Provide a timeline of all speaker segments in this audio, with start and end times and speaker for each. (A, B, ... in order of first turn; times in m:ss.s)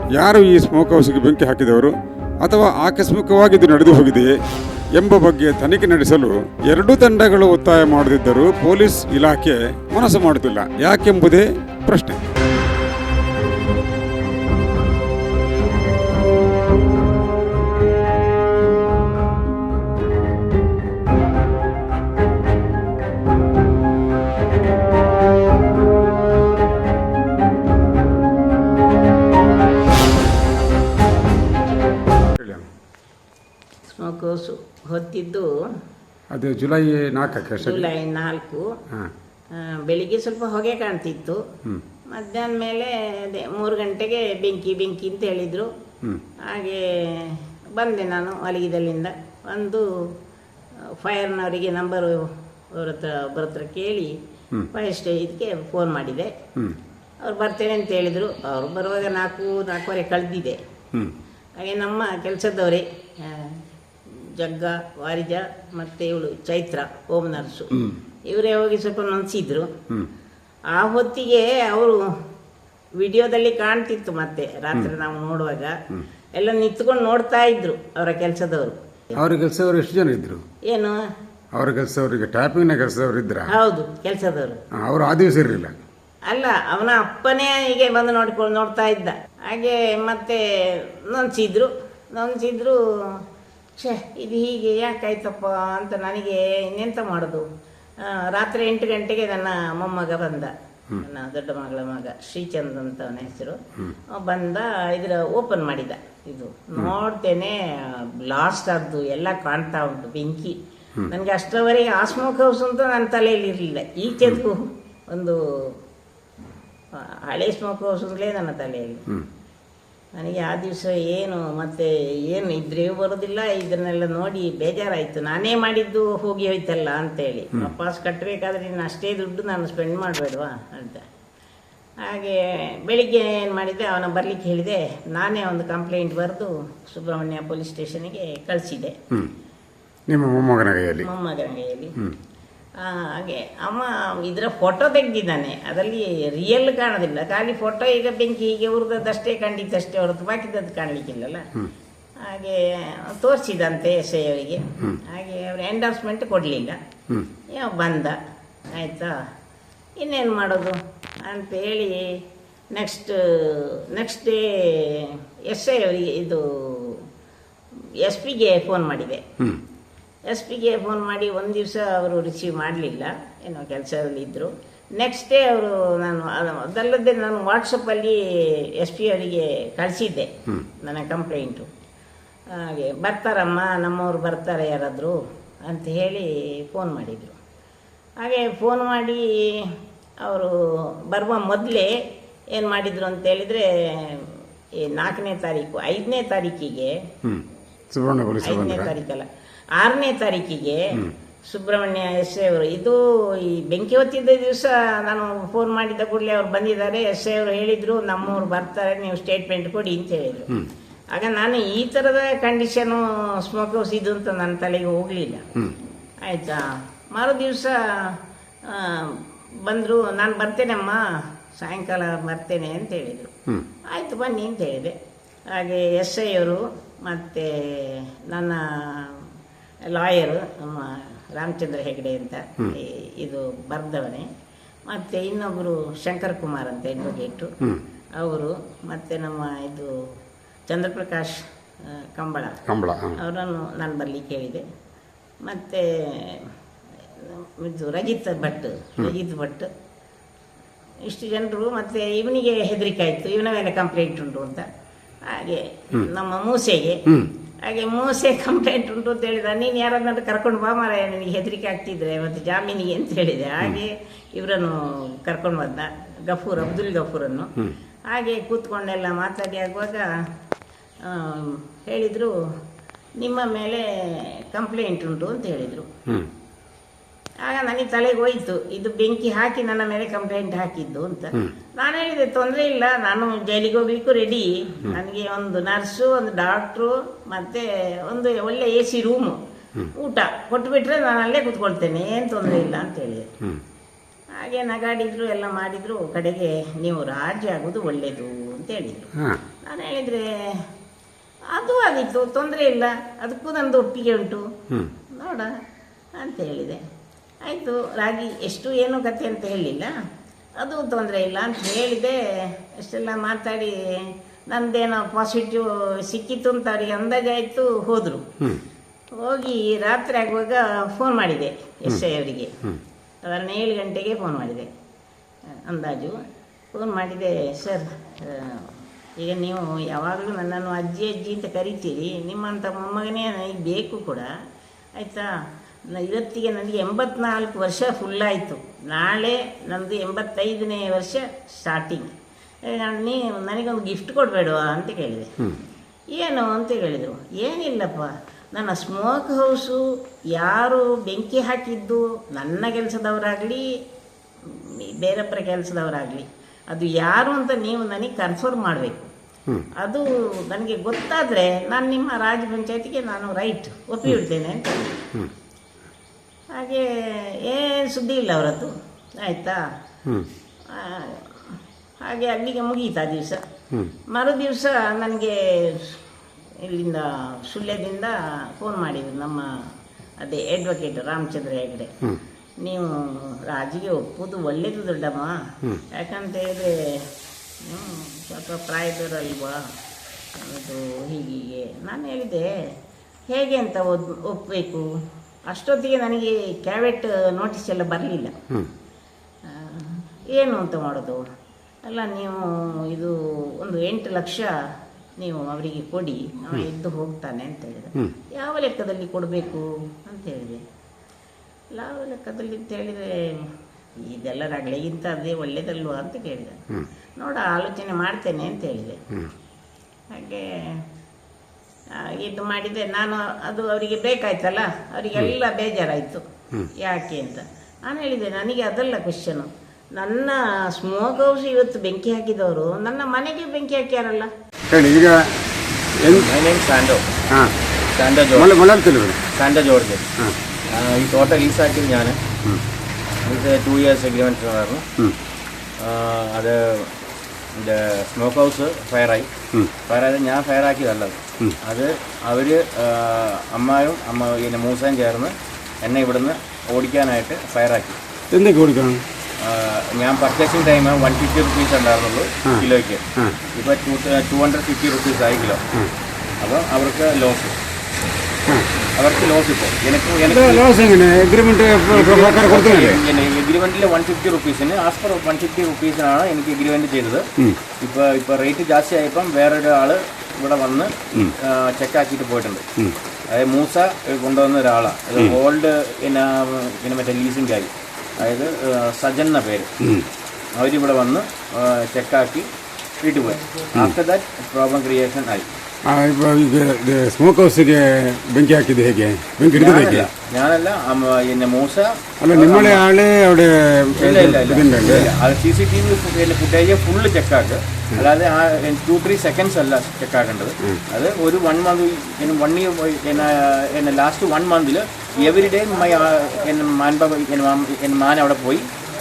0:00.2-0:04.3 A
0:05.0-0:12.2 A
0:32.4-0:32.6 A
0:33.9-0:35.5 B
0:36.3-0:37.9 A
0:37.5-0:38.6 B
0:39.6-0:41.4 B
0:42.1-0:45.7 B
0:46.5-0:49.8 B
0:51.0-0:54.1 B
0:54.7-0:56.3 B
0:57.2-1:00.6 B
1:01.6-1:03.6 B
1:04.1-1:09.7 B
1:10.7-1:12.0 B
1:13.0-1:15.7 B
1:16.4-1:18.8 B
1:19.2-1:20.4 A
1:20.7-1:21.0 B
1:21.5-1:23.5 A
1:23.5-1:24.6 B
1:24.8-1:25.8 A
1:26.3-1:32.8 B
1:33.8-1:37.4 B
1:38.1-1:43.6 B
1:44.1-1:50.5 B
1:51.1-1:55.4 B
1:57.3-1:59.0 B
2:00.2-2:11.0 B
2:12.1-2:18.9 B
2:20.1-2:21.1 A
2:21.0-2:21.9 B
2:22.8-2:31.4 B
2:32.2-2:36.8 B
2:37.5-2:38.2 B
2:38.7-2:39.1 B
2:40.0-2:42.2 B
2:42.7-2:47.0 B
2:48.0-2:49.2 B
2:50.3-2:58.2 B
2:58.8-3:01.7 B
3:02.6-3:07.4 B
3:08.2-3:09.7 B
3:10.2-3:10.5 B
3:11.1-3:11.9 B
3:12.5-3:14.3 B
3:14.8-3:16.9 B
3:17.2-3:18.9 A
3:18.4-3:19.2 B
3:19.8-3:20.8 B
3:21.5-3:30.6 B
3:31.1-3:35.4 B
3:36.2-3:37.8 B
3:38.7-3:41.0 B
3:41.6-3:43.3 B
3:43.9-3:44.9 B
3:45.5-3:49.2 B
3:49.9-3:54.2 B
3:54.9-3:57.5 B
3:58.2-3:59.9 B
4:00.7-4:01.4 B
4:02.0-4:02.6 B
4:02.7-4:03.2 A
4:03.2-4:04.6 B
4:05.4-4:06.4 B
4:07.2-4:09.7 B
4:11.1-4:14.6 B
4:15.3-4:17.0 B
4:17.6-4:27.5 B
4:28.1-4:30.0 B
4:31.1-4:32.3 B
4:33.2-4:35.9 B
4:37.4-4:49.4 B
4:50.0-4:53.2 B
4:54.4-4:59.1 B
4:59.6-5:00.6 B
5:01.5-5:04.4 B
5:05.1-5:05.5 B
5:06.2-5:06.8 B
5:07.4-5:09.9 B
5:10.6-5:18.2 B
5:19.2-5:22.5 B
5:23.2-5:24.7 B
5:25.7-5:26.2 B
5:26.7-5:34.3 B
5:35.0-5:35.3 B
5:35.9-5:42.1 B
5:42.7-5:45.3 B
5:46.1-5:49.8 B
5:50.3-5:53.7 B
5:54.5-5:59.1 B
5:59.8-6:05.0 B
6:06.6-6:09.6 B
6:10.7-6:13.4 B
6:14.1-6:16.0 B
6:16.6-6:19.5 B
6:20.2-6:21.9 B
6:22.6-6:25.3 B
6:25.9-6:27.0 B
6:27.6-6:29.6 B
6:30.4-6:32.5 B
6:33.3-6:34.9 B
6:35.5-6:38.3 B
6:39.5-6:41.2 B
6:41.8-6:44.5 B
6:45.2-6:50.6 B
6:51.7-6:53.5 B
6:54.0-6:56.6 B
6:57.2-6:59.0 B
7:00.1-7:00.8 B
7:02.0-7:06.2 B
7:06.8-7:14.3 B
7:14.7-7:15.3 A
7:16.0-7:16.3 A
7:16.1-7:17.1 C
7:17.9-7:18.5 C
7:18.3-7:19.2 A
7:19.3-7:20.1 C
7:20.7-7:22.2 C
7:23.2-7:24.8 C
7:25.8-7:26.9 C
7:27.6-7:29.3 C
7:29.9-7:38.0 C
7:38.3-7:39.0 A
7:39.4-7:43.0 C
7:43.6-7:45.6 C
7:46.4-7:47.6 C
7:49.0-7:50.6 C
7:50.2-7:53.0 A
7:51.9-7:57.3 C
7:57.8-8:02.6 C
8:03.3-8:09.7 C
8:09.8-8:10.1 A
8:10.6-8:12.5 C
8:13.0-8:15.5 C
8:15.9-8:20.1 A
8:19.6-8:22.8 C
8:22.2-8:25.1 A
8:24.0-8:38.6 C